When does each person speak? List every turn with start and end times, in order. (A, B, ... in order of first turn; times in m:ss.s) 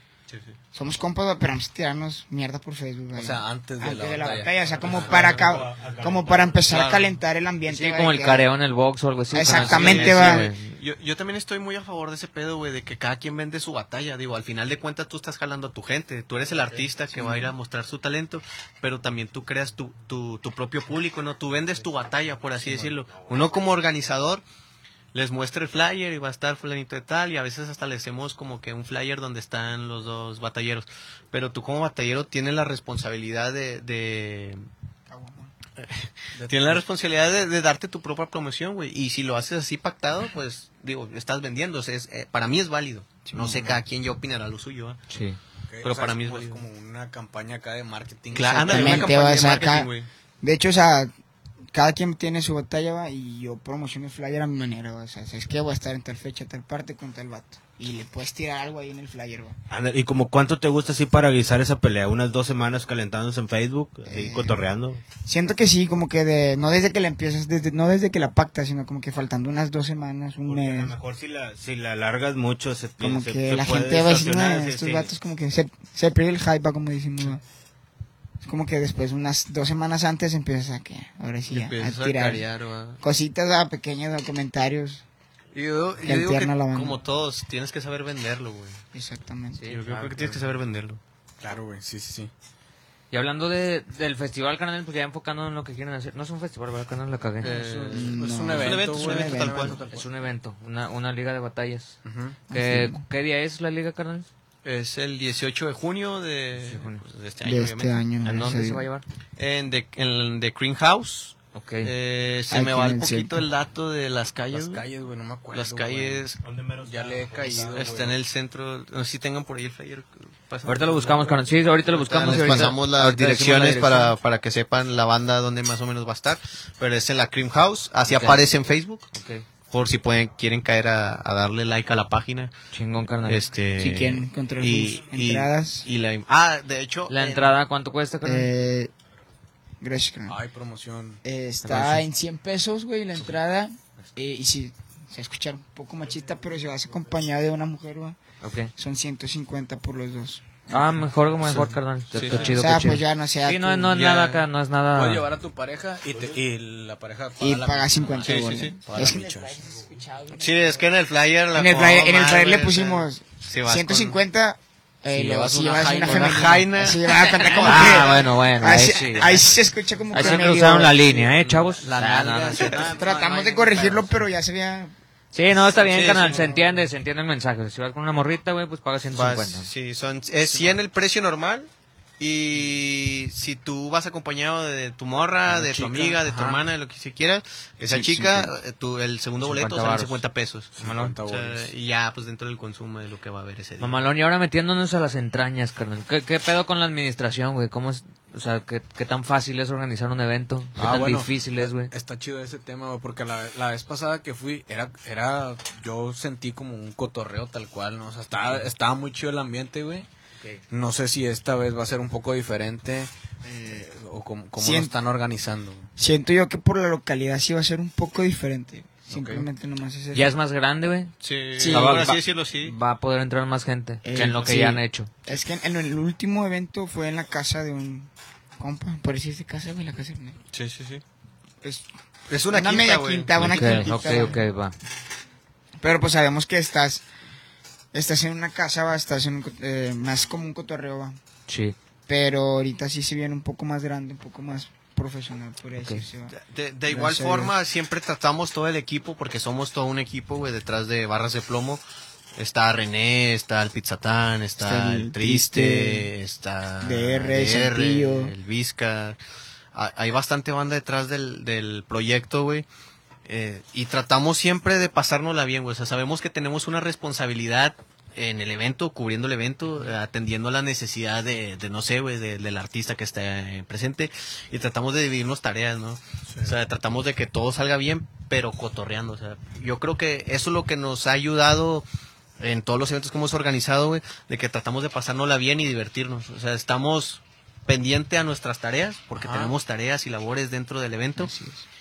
0:00.7-0:08.5 A
0:03.1-0:05.4 B
0:04.8-0:05.6 C
0:05.3-0:06.6 D
0:06.7-0:07.1 C
0:07.6-0:10.8 E
0:09.3-0:10.5 A
0:09.4-0:24.4 C
0:17.1-0:17.5 A
0:22.6-0:22.9 B
0:25.1-0:34.6 C
0:35.1-0:35.5 A
0:35.8-0:45.0 C
0:36.3-0:36.8 B
0:43.2-0:43.8 A
0:45.1-0:45.4 E
0:45.7-0:49.1 B
0:45.8-0:46.6 C
0:48.3-0:50.1 C
0:48.5-0:49.9 A
0:50.4-0:51.1 A
0:51.7-0:59.6 A
0:59.7-1:05.0 D
1:04.1-1:04.6 A
1:05.2-1:10.9 A
1:10.4-1:15.1 D
1:13.0-1:17.4 A
1:18.4-1:22.4 A
1:21.5-1:23.0 C
1:23.0-1:25.0 A
1:25.6-1:26.2 B
1:25.6-1:28.8 C
1:26.0-1:27.0 A
1:28.9-1:29.6 A
1:29.5-1:30.5 E
1:29.7-1:31.0 C
1:31.4-1:32.3 B
1:33.1-1:37.6 E
1:37.4-1:40.1 B
1:37.4-1:39.8 C
1:37.9-1:39.8 A
1:39.9-1:42.0 E
1:42.0-1:42.4 B
1:42.5-1:43.0 A
1:42.5-1:44.3 E
1:44.6-1:48.5 C
1:46.6-1:47.0 E
1:47.4-1:48.9 A
1:48.3-1:49.0 E
1:49.4-1:54.8 C
1:51.5-1:51.9 E
1:52.5-1:53.4 A
1:54.5-1:56.2 B
1:55.5-1:56.4 C
1:56.4-1:58.1 D
1:56.8-1:58.1 B
1:57.4-2:09.1 C
2:00.6-2:04.2 E
2:08.1-2:08.4 E
2:09.1-2:09.4 E
2:09.7-2:12.5 C
2:12.7-2:13.5 E
2:13.2-2:17.6 C
2:13.8-2:15.8 A
2:17.1-2:18.5 E
2:18.2-2:18.9 A
2:19.8-2:20.4 A
2:20.3-2:21.2 B
2:21.2-2:28.2 A
2:21.6-2:22.0 E
2:28.4-2:28.7 E
2:28.8-2:31.0 A
2:30.7-2:35.3 E
2:31.5-2:32.7 B
2:32.1-2:32.6 C
2:32.5-2:34.0 A
2:33.9-2:34.4 C
2:34.9-2:39.6 B
2:37.4-2:40.9 A
2:38.2-2:39.1 C
2:40.3-2:44.2 C
2:41.5-2:51.0 A
2:45.1-2:46.7 B
2:46.0-2:48.2 C
2:47.4-2:49.5 E
2:50.1-2:54.0 E
2:50.1-2:54.1 B
2:52.8-2:54.9 A
2:55.3-2:59.7 E
2:55.8-2:56.4 C
2:55.9-2:56.8 B
2:59.1-3:14.0 C
3:05.4-3:06.6 B
3:07.8-3:08.5 A
3:09.4-3:10.2 E
3:10.8-3:11.7 B
3:10.8-3:11.2 E
3:13.8-3:21.9 E
3:20.8-3:30.1 B
3:28.4-3:28.6 E
3:30.7-3:33.1 B
3:33.6-3:35.9 B
3:34.6-3:34.9 A
3:36.0-3:40.3 A
3:39.1-3:39.5 B
3:40.1-3:45.1 E
3:41.2-3:42.7 C
3:41.6-3:42.1 A
3:44.0-3:50.4 A
3:50.5-3:51.0 C
3:51.6-3:51.9 A
3:52.3-3:54.3 C
3:52.5-3:54.4 A
3:53.4-3:54.7 E
3:55.8-3:57.0 A
3:57.9-4:01.2 A
4:01.5-4:01.7 E
4:02.1-4:06.3 A
4:06.3-4:11.8 C
4:06.9-4:07.5 A
4:12.4-4:19.2 C
4:14.6-4:16.1 A
4:16.8-4:18.3 A
4:19.7-4:22.7 C
4:23.2-4:41.8 C
4:36.3-4:36.5 B
4:42.4-4:51.3 C
4:49.1-4:49.5 B
4:51.2-4:51.6 A